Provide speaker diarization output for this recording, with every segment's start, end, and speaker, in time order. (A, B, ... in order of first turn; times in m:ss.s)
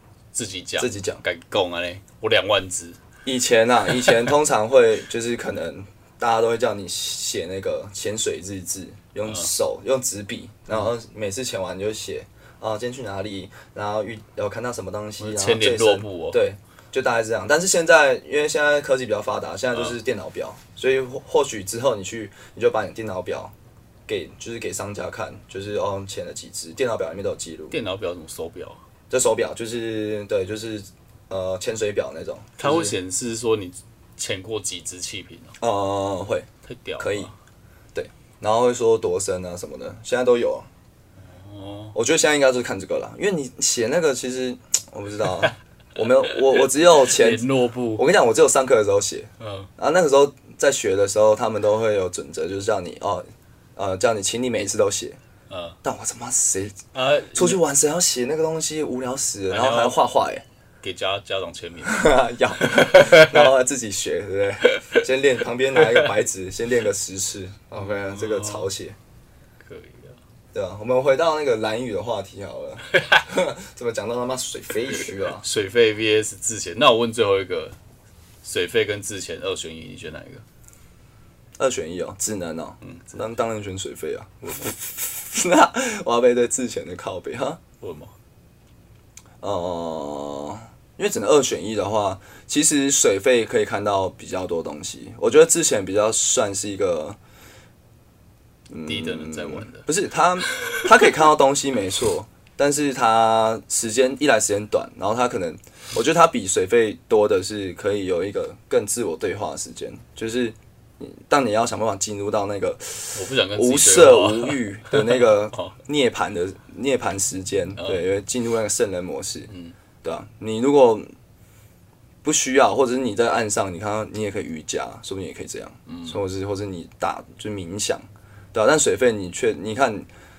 0:00.3-0:03.0 A
0:00.8-0:01.2 B
0:03.2-0:23.5 B
0:15.2-0:16.4 A
0:24.1-0:27.8 B
0:27.7-0:28.8 A
0:29.1-0:32.9 B
0:32.6-0:35.6 A
0:35.6-0:36.5 B
0:36.6-0:37.3 A
0:37.0-0:37.3 B
0:37.9-0:40.7 B
0:41.3-0:42.0 A
0:41.9-0:53.2 B
0:46.3-0:48.0 A
0:49.4-0:49.7 A
0:53.8-0:55.2 B
0:55.5-0:55.8 A
0:55.8-0:56.8 B
0:56.9-0:57.6 A
0:57.3-1:00.4 B
0:59.5-1:00.0 A
1:00.8-1:02.1 A
1:01.8-1:09.0 B
1:02.7-1:03.5 A
1:04.7-1:05.0 A
1:05.8-1:06.1 A
1:07.8-1:08.7 A
1:09.6-1:10.2 A
1:10.5-1:15.4 B
1:12.9-1:13.2 A
1:15.3-1:17.8 A
1:18.4-1:20.4 A
1:21.6-1:27.6 B
1:22.8-1:23.2 A
1:24.4-1:24.7 A
1:27.8-1:28.1 A
1:29.4-1:37.2 B
1:38.7-1:59.5 B
1:38.9-1:39.9 A
1:40.5-1:40.9 A
1:53.1-1:55.8 A
1:57.8-1:58.0 A
1:59.5-1:59.7 A
2:00.0-2:01.1 B
2:02.2-2:10.1 B
2:05.9-2:06.2 A